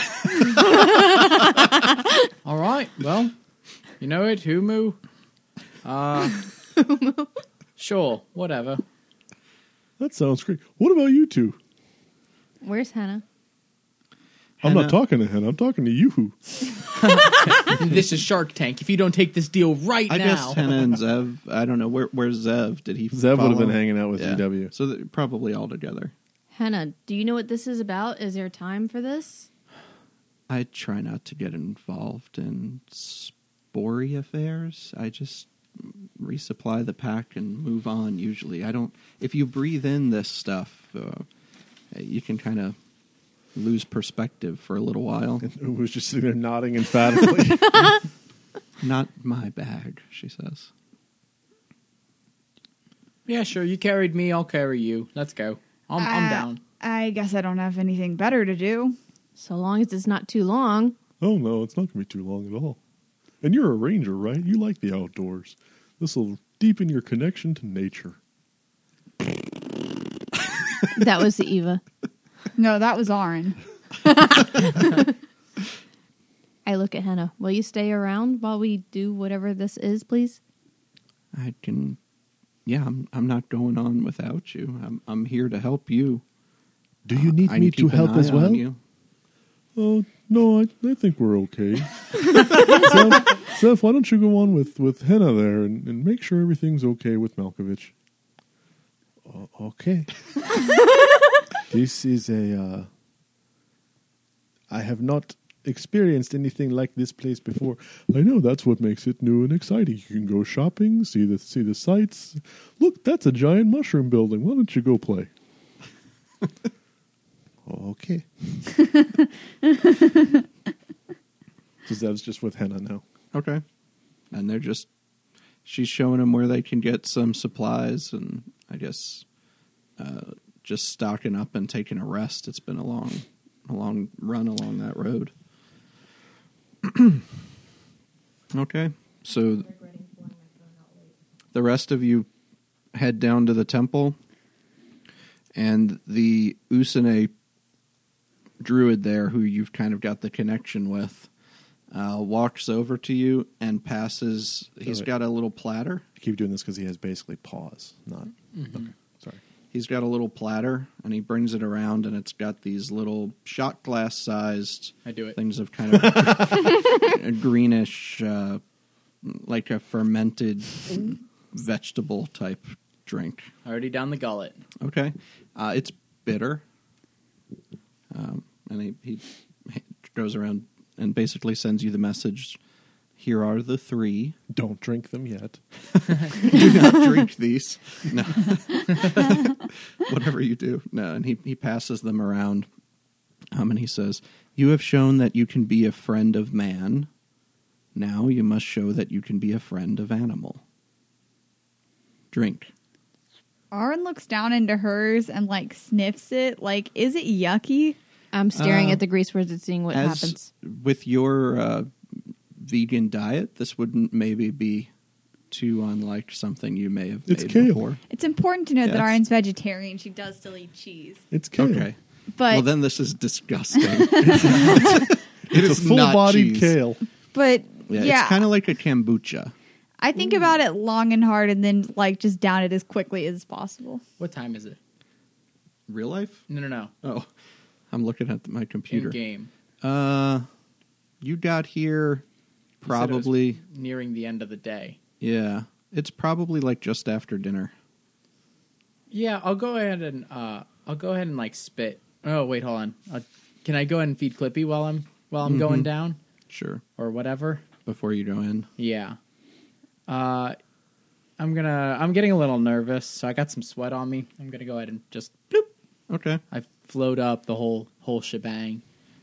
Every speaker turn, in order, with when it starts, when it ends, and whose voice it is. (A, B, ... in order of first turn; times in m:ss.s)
0:00.7-0:01.4 A
0:02.4-0:03.3 B
0:04.0-0:05.0 B
0:05.8-0:06.4 B
0:06.8-0:07.3 A
0:07.8-0:08.8 B
0:10.0-0:11.6 C
0:12.6-0:13.2 A
0:14.6-0:15.0 D
0:14.6-0:16.8 C
0:17.0-0:20.6 B
0:20.1-0:26.1 D
0:23.1-0:24.7 C
0:26.5-0:29.5 A
0:30.5-0:41.3 D
0:41.9-0:42.8 D
0:43.6-0:45.4 D
0:45.4-0:48.0 C
0:48.8-0:50.7 D
0:53.3-0:56.6 B
0:56.0-0:59.0 E
0:59.4-1:01.0 A
1:01.2-1:02.8 C
1:03.4-1:08.2 C
1:10.9-1:11.8 A
1:12.6-1:13.6 E
1:14.0-1:15.1 A
1:16.6-1:20.4 A
1:21.3-1:22.0 D
1:22.7-1:26.2 D
1:27.0-1:28.7 C
1:27.1-1:28.8 D
1:29.8-1:37.9 C
1:39.2-1:40.1 C
1:41.7-1:42.9 C
1:44.7-1:55.3 C
1:57.7-1:58.7 C
2:01.8-2:03.0 C
2:03.3-2:03.6 D
2:04.3-2:04.9 D
2:05.6-2:09.2 D
2:10.0-2:15.3 D
2:16.8-2:17.2 D
2:18.5-2:19.7 D
2:19.7-2:21.0 A
2:21.5-2:22.3 D
2:22.9-2:24.2 D
2:25.6-2:27.3 D
2:28.6-2:31.3 D
2:31.9-2:36.0 D
2:36.2-2:39.4 C
2:38.5-2:38.9 B
2:39.7-2:48.6 D
2:45.0-2:45.4 B
2:46.1-2:46.4 C
2:49.2-2:53.5 D
2:53.6-2:54.6 B
2:54.8-2:56.6 D
2:58.1-3:02.6 D
3:03.2-3:04.4 D
3:04.5-3:05.6 C
3:06.4-3:12.7 D
3:13.5-3:17.1 D
3:18.0-3:20.6 D
3:22.3-3:22.7 D
3:23.7-3:28.0 E
3:28.3-3:30.5 A
3:28.5-3:29.0 D
3:29.9-3:31.9 D
3:32.6-3:34.9 D
3:35.5-3:38.0 D
3:37.3-3:37.9 C
3:38.1-3:41.2 E
3:38.8-3:39.2 D
3:41.3-3:41.9 C
3:41.6-3:42.0 D
3:42.4-3:42.7 E
3:42.5-3:46.8 D
3:43.9-3:44.6 E
3:44.2-3:47.0 C
3:47.3-3:48.5 E
3:47.9-3:49.5 D
3:50.0-3:54.0 E
3:54.2-3:54.8 B
3:55.9-3:56.4 D
3:56.5-3:56.9 B
3:57.0-3:57.3 D
3:57.9-3:59.2 D
3:58.9-3:59.5 B
3:59.8-4:00.5 D
4:01.2-4:02.2 D
4:02.8-4:03.6 D
4:02.8-4:05.0 B
4:05.2-4:07.7 D
4:09.1-4:16.2 B
4:15.4-4:15.9 D
4:16.5-4:16.8 D
4:17.0-4:17.6 B
4:17.9-4:18.7 D
4:18.8-4:19.2 B
4:20.1-4:20.6 B
4:21.4-4:25.7 B
4:26.1-4:26.4 D
4:26.5-4:28.8 B